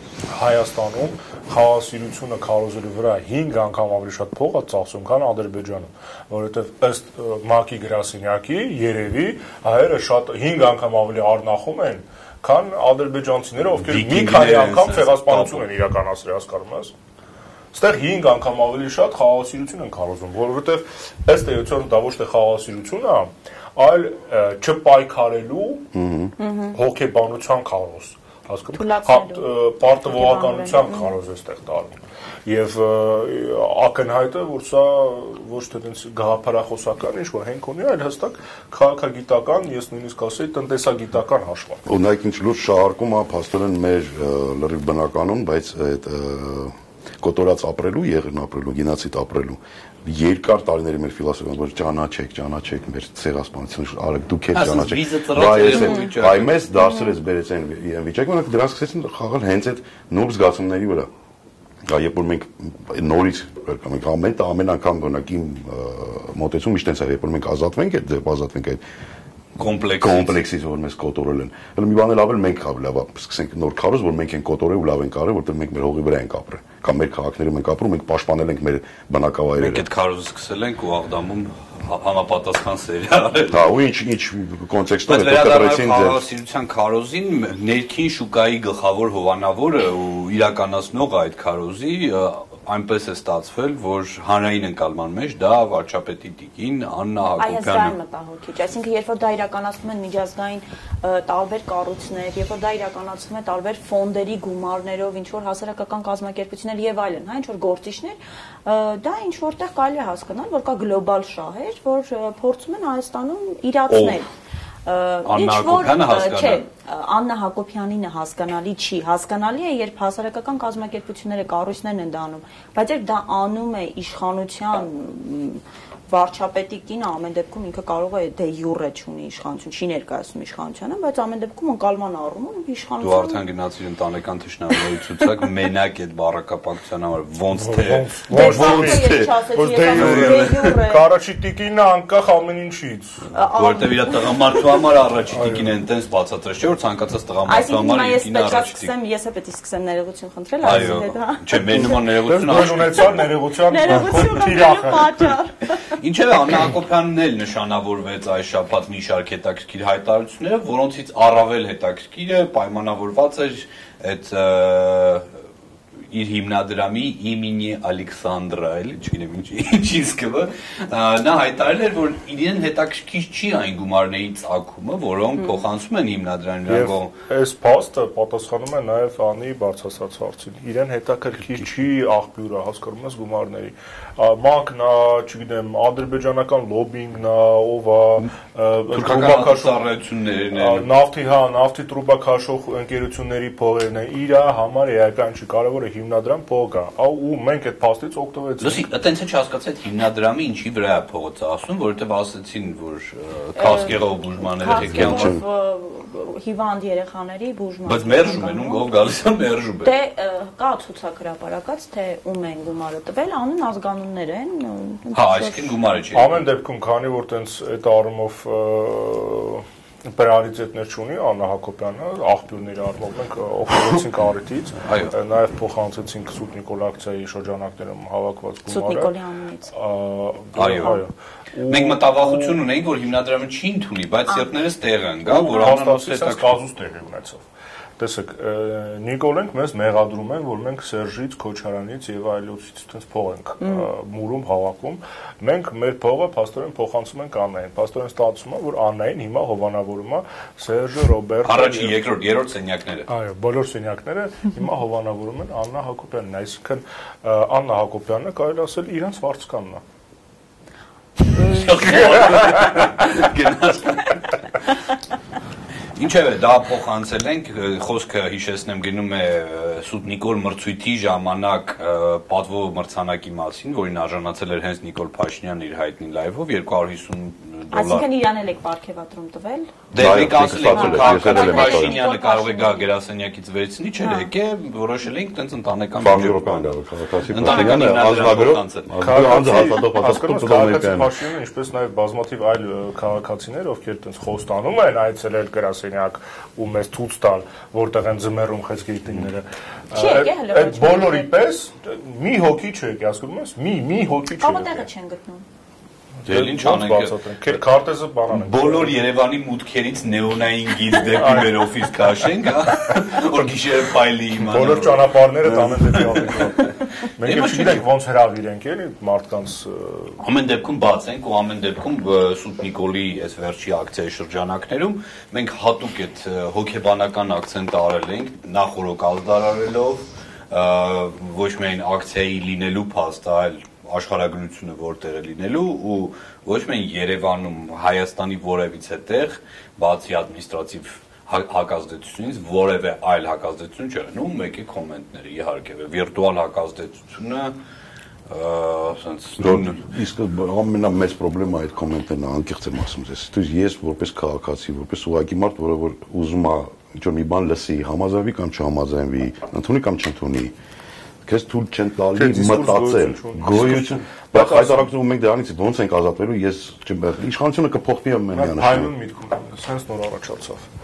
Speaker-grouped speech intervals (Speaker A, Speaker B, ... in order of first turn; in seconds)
Speaker A: 0.3-16.9, 17.7-25.9, 26.7-41.8, 137.5-143.2, 145.3-145.7, 150.7-151.0, 151.6-155.3, 176.7-189.8, 190.5-198.8, 216.1-229.1, 229.7-232.6, 235.3-237.5, 238.0-252.0, 253.1-259.8, 261.8-262.9, 289.0-304.9, 306.2-309.0, 311.0-311.8, 314.4-320.2, 362.1-364.9, 368.3-370.7
Speaker B: 13.8-15.7, 54.5-56.5, 69.6-70.4, 79.6-83.7, 85.1-98.0, 113.9-114.2, 115.3-116.6, 133.0-138.8, 143.5-148.9, 150.6-153.3, 155.9-165.3, 166.1-177.1, 188.9-190.9, 198.6-205.4, 207.9-209.9, 215.1-216.4, 224.8-225.1, 230.6-231.0, 231.7-236.6, 251.4-253.1, 261.3-264.4, 266.0-278.1, 279.9-286.7, 287.3-289.4, 306.3-307.6, 308.3-316.5, 317.2-317.8, 320.2-347.5, 348.3-349.9
Speaker C: 25.9-26.3, 41.9-61.1, 61.9-68.8, 70.0-79.8, 83.5-86.2, 138.4-139.3, 140.0-140.4, 204.7-205.4, 279.9-282.0, 286.0-291.1, 349.4-360.5, 361.2-368.9
Speaker D: 26.4-26.8, 28.8-29.5, 30.1-31.1, 55.7-56.1, 56.8-57.1, 97.4-114.3, 114.9-133.4, 138.3-141.0, 143.3-144.8, 147.5-152.1, 153.0-155.9, 203.6-208.8, 209.8-215.7, 228.7-229.7, 277.7-279.7, 280.5-282.9, 284.0-284.3, 287.4-287.8, 299.9-301.4, 304.4-305.4